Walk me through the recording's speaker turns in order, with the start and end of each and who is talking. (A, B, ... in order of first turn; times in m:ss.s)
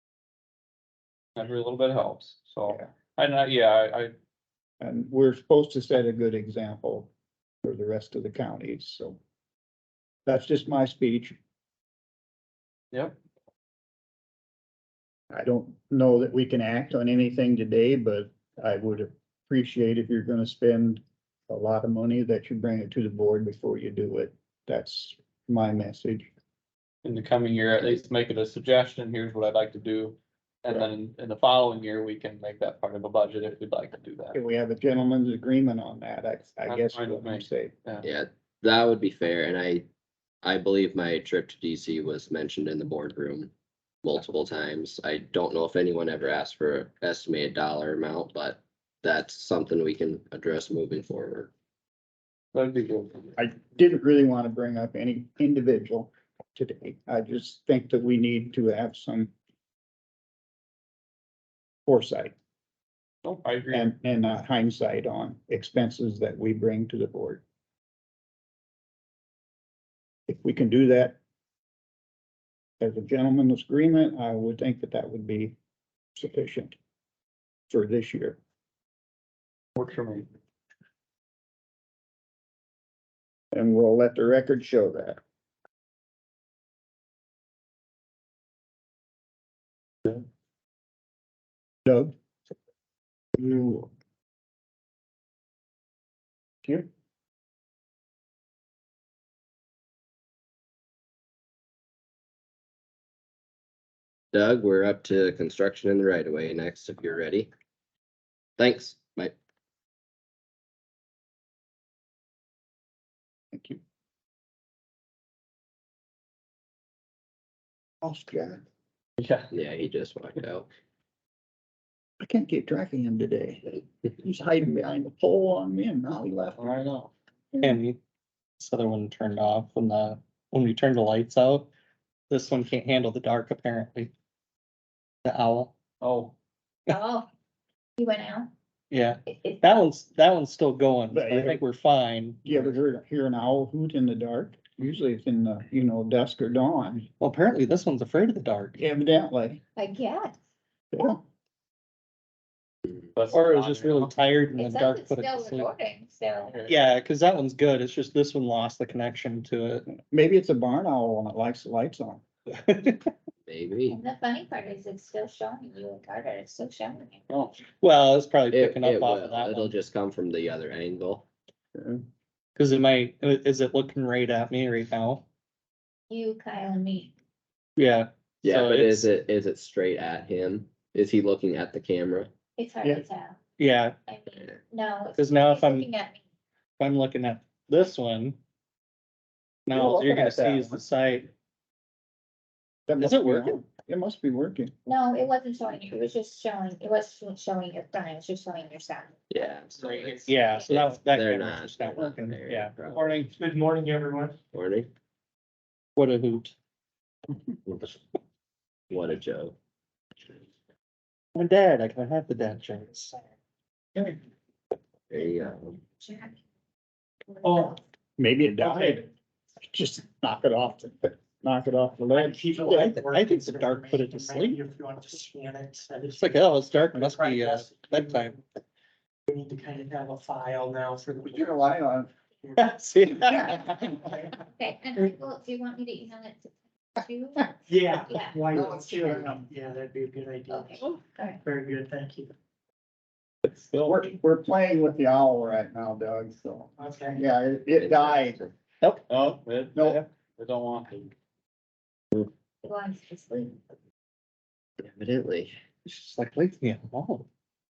0:01.4-0:04.1 A
0:04.8-0:07.1 B
0:07.6-0:09.2 B
0:10.2-0:11.4 B
0:15.3-0:26.3 B
0:27.0-0:34.4 A
0:34.3-0:37.7 B
0:36.6-0:38.0 A
0:38.0-0:39.9 C
0:40.4-0:43.5 C
0:44.0-0:51.5 C
0:52.5-0:53.3 A
0:53.4-0:59.3 B
1:01.8-1:02.3 B
1:03.2-1:03.9 A
1:03.7-1:07.4 B
1:10.3-1:11.2 B
1:12.8-1:15.6 B
1:16.2-1:16.8 B
1:17.7-1:18.4 B
1:19.8-1:20.3 A
1:23.5-1:25.2 B
1:31.8-1:32.1 B
1:33.4-1:33.9 B
1:44.3-1:47.5 C
1:48.6-1:49.3 C
1:53.5-1:53.8 B
1:58.0-1:58.6 B
1:59.2-1:59.5 A
1:59.5-2:00.7 C
2:02.2-2:06.7 B
2:06.6-2:07.1 A
2:07.6-2:08.0 D
2:08.6-2:11.7 D
2:12.3-2:14.1 D
2:15.2-2:15.7 D
2:16.0-2:16.3 A
2:16.9-2:17.3 E
2:18.0-2:18.5 E
2:18.9-2:22.6 D
2:21.1-2:21.6 B
2:22.4-2:27.1 B
2:27.2-2:28.8 D
2:28.8-2:29.6 B
2:29.8-2:30.3 E
2:30.9-2:31.2 B
2:33.1-2:34.2 A
2:33.3-2:35.7 D
2:34.5-2:36.6 E
2:36.4-2:36.9 A
2:36.6-2:39.9 D
2:39.9-2:42.2 B
2:42.6-2:43.1 D
2:43.4-2:44.0 C
2:43.9-2:47.2 E
2:47.8-2:49.7 D
2:48.5-2:51.3 C
2:51.8-2:52.0 B
2:52.6-2:55.2 D
2:56.1-2:57.1 E
2:57.8-2:59.0 D
2:58.4-3:02.3 C
3:02.6-3:03.4 E
3:03.6-3:04.0 D
3:04.0-3:06.2 E
3:05.2-3:05.8 D
3:06.8-3:08.4 D
3:09.7-3:11.3 D
3:09.7-3:10.8 B
3:12.9-3:14.7 B
3:13.0-3:13.6 D
3:14.8-3:19.1 E
3:19.3-3:23.2 C
3:19.8-3:20.2 A
3:20.3-3:23.3 D
3:20.4-3:20.7 E
3:23.3-3:24.4 F
3:24.5-3:24.9 C
3:26.0-3:26.5 D
3:27.7-3:28.0 C
3:28.9-3:29.6 C
3:31.3-3:33.1 D
3:35.1-3:35.8 C
3:36.0-3:36.3 E
3:37.3-3:37.8 E
3:37.4-3:37.8 F
3:38.2-3:39.1 B
3:38.6-3:39.0 F
3:39.6-3:42.9 B
3:42.1-3:48.4 F
3:42.7-3:44.6 D
3:46.1-3:48.3 D
3:49.3-3:51.8 F
3:51.2-3:52.1 B
3:52.4-3:52.7 F
3:52.6-3:53.9 D
3:53.2-3:54.3 B
3:54.5-3:58.4 E
3:57.6-4:02.3 F
3:58.5-3:59.5 B
4:00.5-4:01.4 E
4:03.5-4:04.0 A
4:03.8-4:08.4 B
4:06.8-4:07.2 F
4:07.8-4:08.5 C
4:08.8-4:09.0 D
4:09.1-4:11.1 A
4:09.7-4:10.0 B
4:12.6-4:13.5 E
4:14.8-4:15.5 C
4:15.8-4:17.2 D